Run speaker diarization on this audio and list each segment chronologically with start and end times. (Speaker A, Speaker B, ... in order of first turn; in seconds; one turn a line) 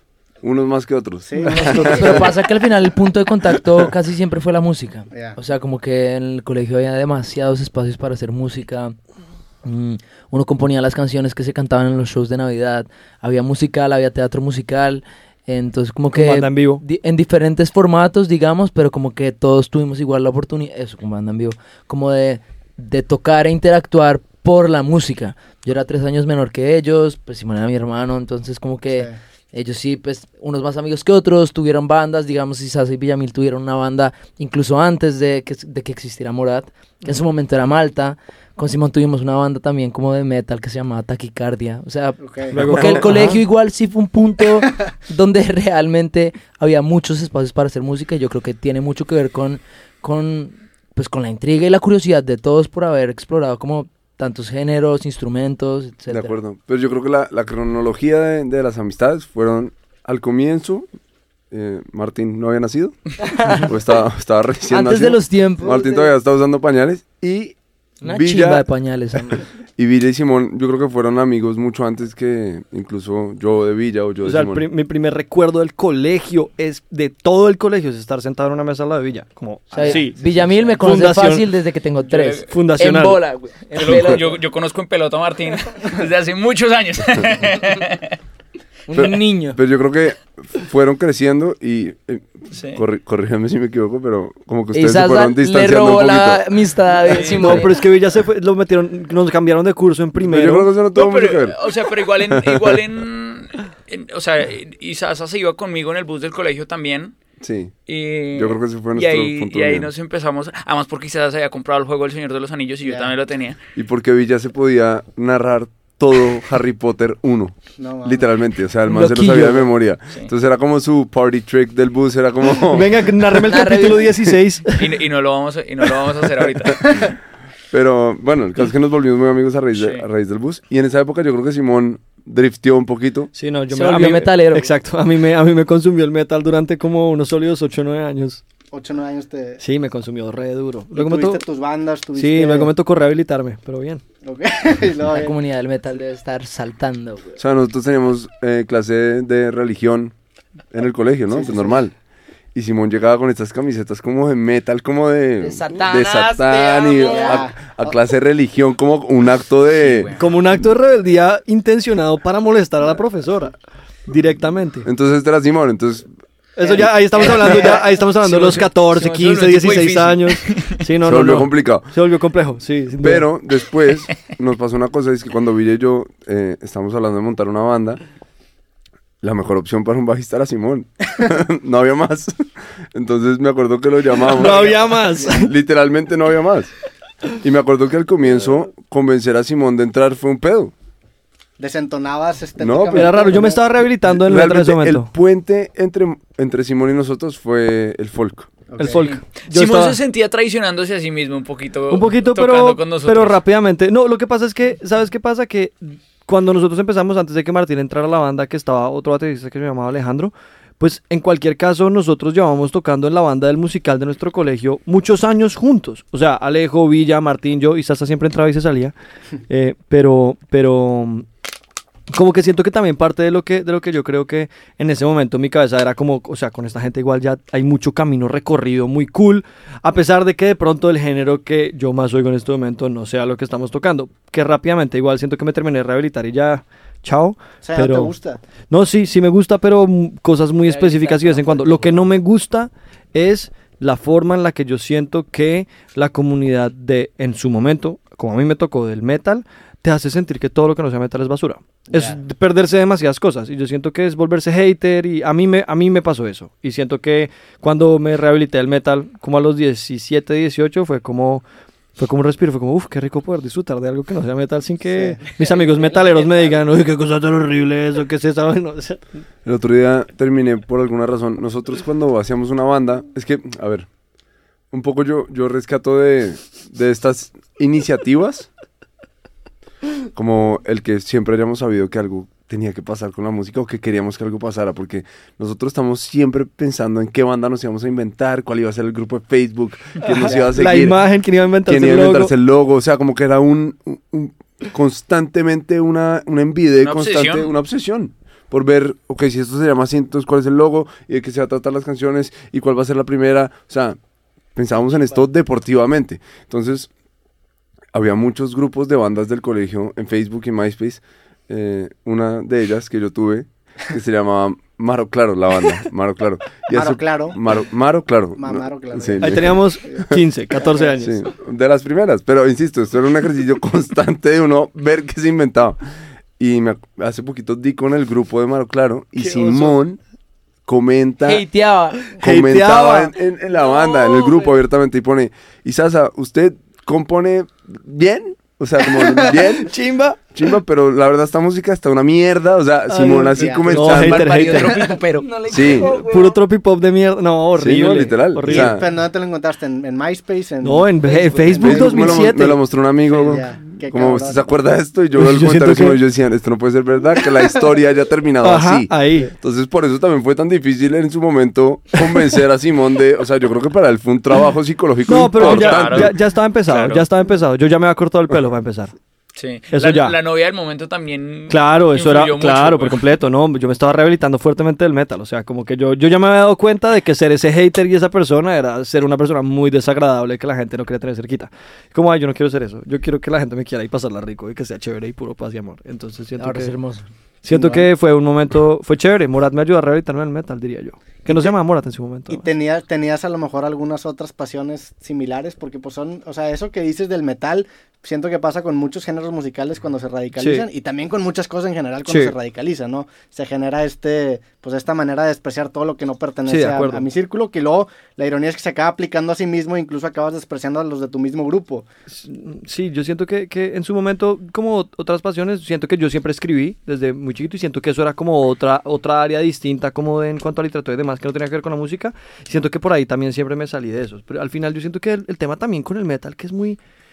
Speaker A: 0.4-2.3
Speaker B: 1.3-2.1
Speaker C: 1.4-2.1
Speaker D: 1.5-8.9
Speaker B: 5.1-5.4
Speaker D: 9.6-56.3
Speaker C: 16.1-16.8
Speaker B: 28.9-29.2
Speaker B: 42.2-43.0
Speaker C: 42.5-43.4
Speaker A: 56.1-60.9
Speaker A: 61.5-63.0
Speaker D: 63.2-63.7
Speaker A: 63.5-68.7
Speaker D: 64.7-66.1
Speaker D: 68.0-69.4
Speaker A: 69.3-74.6
Speaker C: 74.2-81.5
Speaker D: 79.7-84.3
Speaker E: 82.0-82.5
Speaker C: 82.5-83.2
Speaker E: 83.7-88.2
Speaker D: 88.9-89.6
Speaker A: 88.9-96.5
Speaker E: 92.5-92.8
Speaker D: 94.7-97.8
Speaker E: 97.0-97.6
Speaker C: 97.2-100.7
Speaker A: 100.2-101.6
Speaker E: 100.9-107.2
Speaker A: 102.3-102.8
Speaker A: 107.4-107.7
Speaker E: 107.9-113.6
Speaker A: 108.3-109.9
Speaker B: 112.8-113.1
Speaker A: 113.8-123.5
Speaker B: 117.8-118.3
Speaker D: 118.9-119.7
Speaker C: 122.6-124.9
Speaker D: 123.5-124.1
Speaker E: 124.8-127.1
Speaker A: 127.7-133.3
Speaker E: 129.7-130.0
Speaker C: 133.3-138.4
Speaker D: 133.7-134.7
Speaker B: 138.7-139.6
Speaker C: 139.6-141.4
Speaker B: 140.9-142.7
Speaker C: 142.1-144.0
Speaker B: 144.2-145.4
Speaker D: 145.1-147.3
Speaker A: 147.4-150.1
Speaker A: 150.7-151.9
Speaker B: 151.3-151.8
Speaker A: 152.5-160.1
Speaker D: 155.4-157.4
Speaker B: 157.1-157.9
Speaker E: 159.7-160.2
Speaker C: 160.2-163.6
Speaker C: 164.1-164.8
Speaker A: 164.8-166.1
Speaker C: 166.6-173.3
Speaker B: 166.6-167.8
Speaker E: 167.2-170.8
Speaker A: 171.0-171.9
Speaker A: 173.0-178.0
Speaker A: 179.2-182.3
Speaker A: 182.9-186.7
Speaker C: 184.3-185.5
Speaker B: 184.4-185.4
Speaker A: 187.4-190.7
Speaker B: 191.6-193.7
Speaker A: 192.6-193.2
Speaker C: 192.9-195.1
Speaker A: 194.1-198.5
Speaker B: 198.7-199.1
Speaker C: 198.8-200.0
Speaker E: 199.0-203.4
Speaker C: 201.9-218.9
Speaker C: 219.5-221.2
Speaker C: 222.1-238.1
Speaker B: 237.6-238.4
Speaker C: 238.7-261.4
Speaker E: 240.7-241.9
Speaker B: 251.9-252.2
Speaker C: 262.0-269.0
Speaker B: 264.9-266.6
Speaker A: 269.4-273.9
Speaker A: 274.7-278.5
Speaker A: 280.1-291.0
Speaker C: 290.0-292.3
Speaker B: 290.2-290.5
Speaker A: 291.6-304.0
Speaker E: 296.8-297.5
Speaker A: 304.5-306.9
Speaker A: 307.9-319.6
Speaker B: 316.7-317.4
Speaker B: 318.4-320.9
Speaker C: 319.2-321.1
Speaker A: 321.0-325.8
Speaker A: 326.4-330.0
Speaker C: 329.1-329.8
Speaker A: 330.6-331.4
Speaker D: 331.2-332.2
Speaker C: 332.1-333.1
Speaker A: 332.2-339.7
Speaker D: 333.6-334.4
Speaker C: 339.0-340.2
Speaker A: 340.3-344.6
Speaker C: 342.9-344.8
Speaker B: 343.3-343.7
Speaker E: 343.6-345.8
Speaker D: 344.6-346.4
Speaker A: 345.5-346.0
Speaker C: 345.7-348.8
Speaker A: 347.5-348.8
Speaker B: 348.4-352.2
Speaker C: 350.6-352.6
Speaker A: 351.5-366.1
Speaker B: 353.1-354.5
Speaker C: 355.1-356.0
Speaker C: 358.4-359.3
Speaker C: 365.1-368.9
Speaker E: 365.3-366.1
Speaker E: 366.7-367.0
Speaker E: 369.4-373.0
Speaker C: 369.7-370.2
Speaker C: 371.5-386.7
Speaker D: 386.4-387.0
Speaker C: 387.4-392.5
Speaker B: 387.5-387.9
Speaker B: 391.3-391.5
Speaker B: 392.3-411.8
Speaker C: 400.4-400.6
Speaker C: 402.1-402.3
Speaker C: 406.4-407.0
Speaker C: 412.1-426.8